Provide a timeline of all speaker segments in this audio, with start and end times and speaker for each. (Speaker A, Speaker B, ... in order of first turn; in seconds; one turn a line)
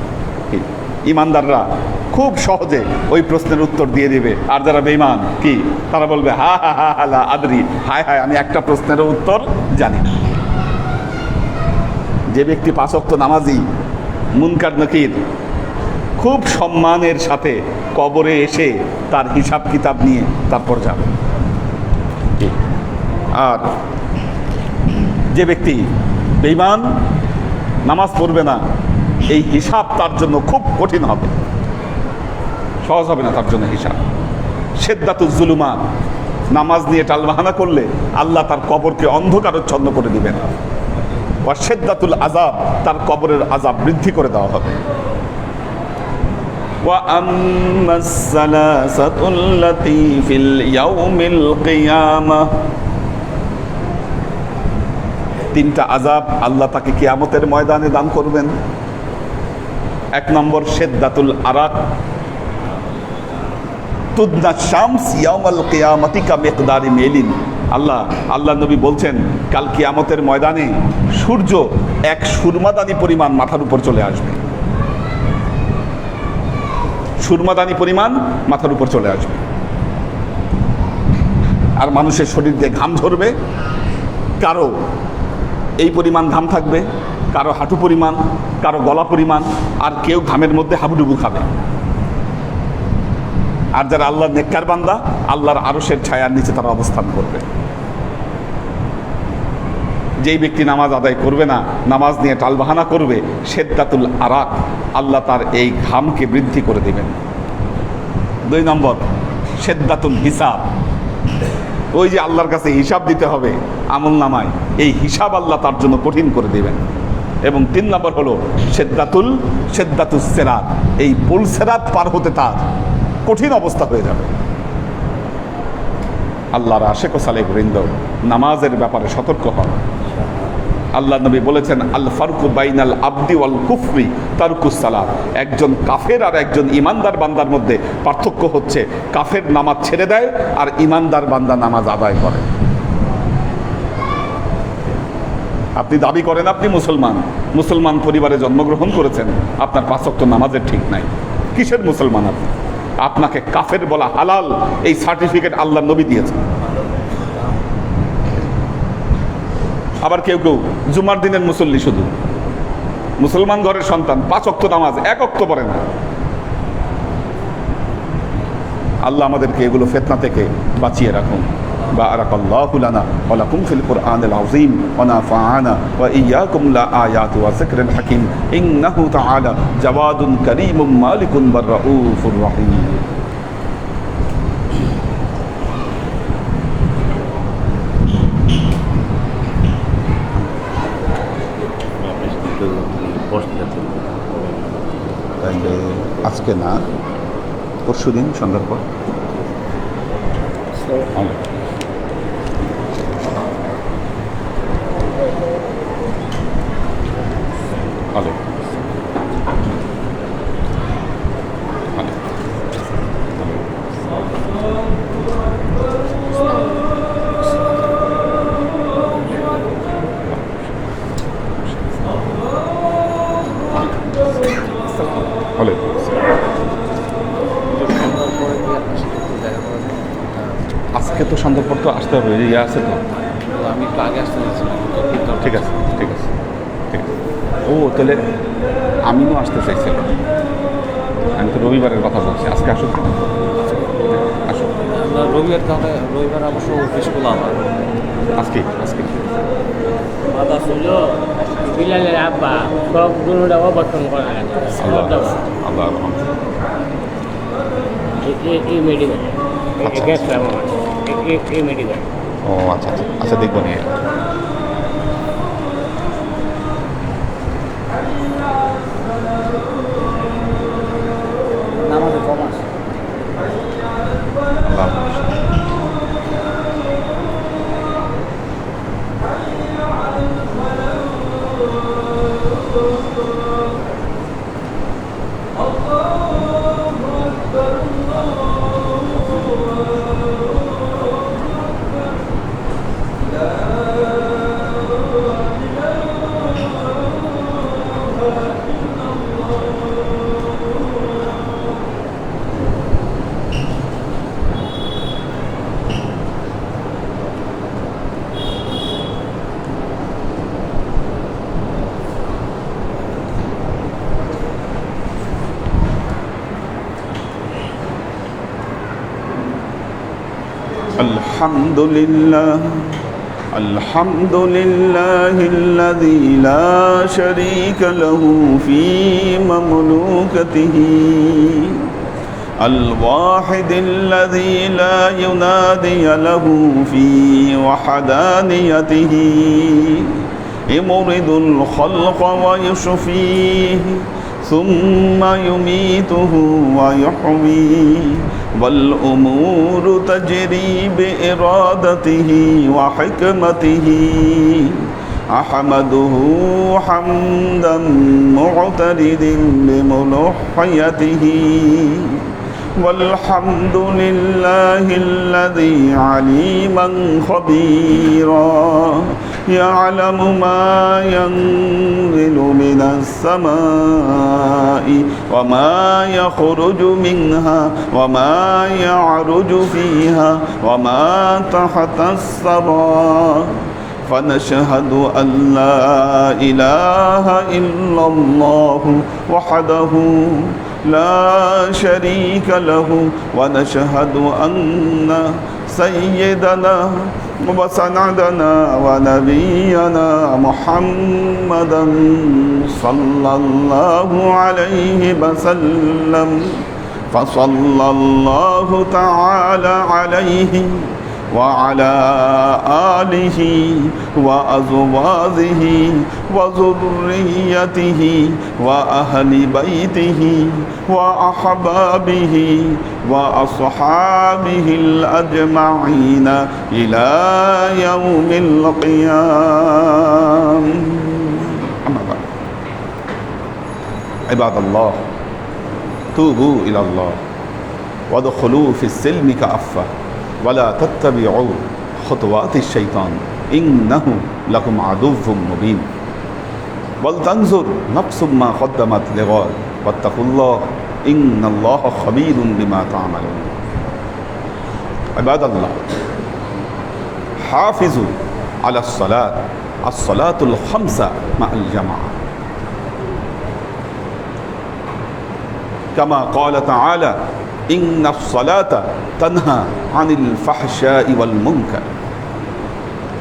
Speaker A: 0.5-10.1
Speaker A: 12.3-13.6
Speaker A: 14.4-15.2
Speaker A: 16.2-21.1
Speaker A: 23.4-23.6
Speaker A: 25.3-25.9
Speaker A: 26.4-26.9
Speaker A: 27.9-28.6
Speaker A: 29.3-31.4
Speaker A: 32.8-34.0
Speaker A: 34.8-35.8
Speaker A: 36.5-40.4
Speaker A: 41.4-44.8
Speaker A: 46.9-52.5
Speaker A: 55.5-58.5
Speaker A: 60.1-61.8
Speaker A: 64.2-74.4
Speaker A: 77.2-79.4
Speaker A: 81.8-83.3
Speaker A: 84.4-84.7
Speaker A: 85.8-91.5
Speaker A: 93.8-97.4
Speaker A: 100.2-107.2
Speaker A: 108.5-110.7
Speaker A: 111.9-116.8
Speaker A: 117.5-122.6
Speaker A: 123.3-124.3
Speaker A: 126.5-129.8
Speaker A: 131.0-142.5
Speaker A: 145.8-152.5
Speaker A: 153.0-156.4
Speaker A: 160.0-162.1
Speaker A: 163.2-165.8
Speaker A: 169.0-183.0
Speaker B: 192.0-194.7
Speaker A: 195.4-196.9
Speaker A: 197.9-198.8
Speaker A: 208.1-208.4
Speaker A: 225.6-226.1
Speaker B: 227.7-230.6
Speaker A: 230.9-233.0
Speaker B: 233.5-235.7
Speaker A: 235.4-236.2
Speaker A: 237.7-238.3
Speaker A: 239.1-240.1
Speaker A: 241.4-243.3
Speaker A: 244.1-244.8
Speaker B: 245.0-247.7
Speaker A: 248.3-249.3
Speaker C: 250.3-255.3
Speaker A: 254.8-256.3
Speaker C: 258.2-259.3
Speaker A: 259.8-260.3
Speaker C: 260.0-262.0
Speaker A: 262.5-264.0
Speaker C: 271.9-272.5
Speaker A: 274.6-275.3
Speaker A: 321.0-322.9
Speaker A: 323.5-331.8
Speaker A: 332.6-340.2
Speaker A: 340.7-362.2
Speaker A: 362.8-383.5
Speaker A: 384.1-406.6
Speaker A: 407.1-432.2
Speaker A: 434.3-435.0
Speaker A: 436.1-437.2
Speaker A: 438.1-439.9
Speaker A: 440.4-445.9
Speaker A: 447.0-453.5
Speaker A: 455.2-455.8
Speaker A: 457.4-458.1
Speaker A: 458.6-462.2
Speaker A: 465.9-467.2
Speaker A: 467.7-471.9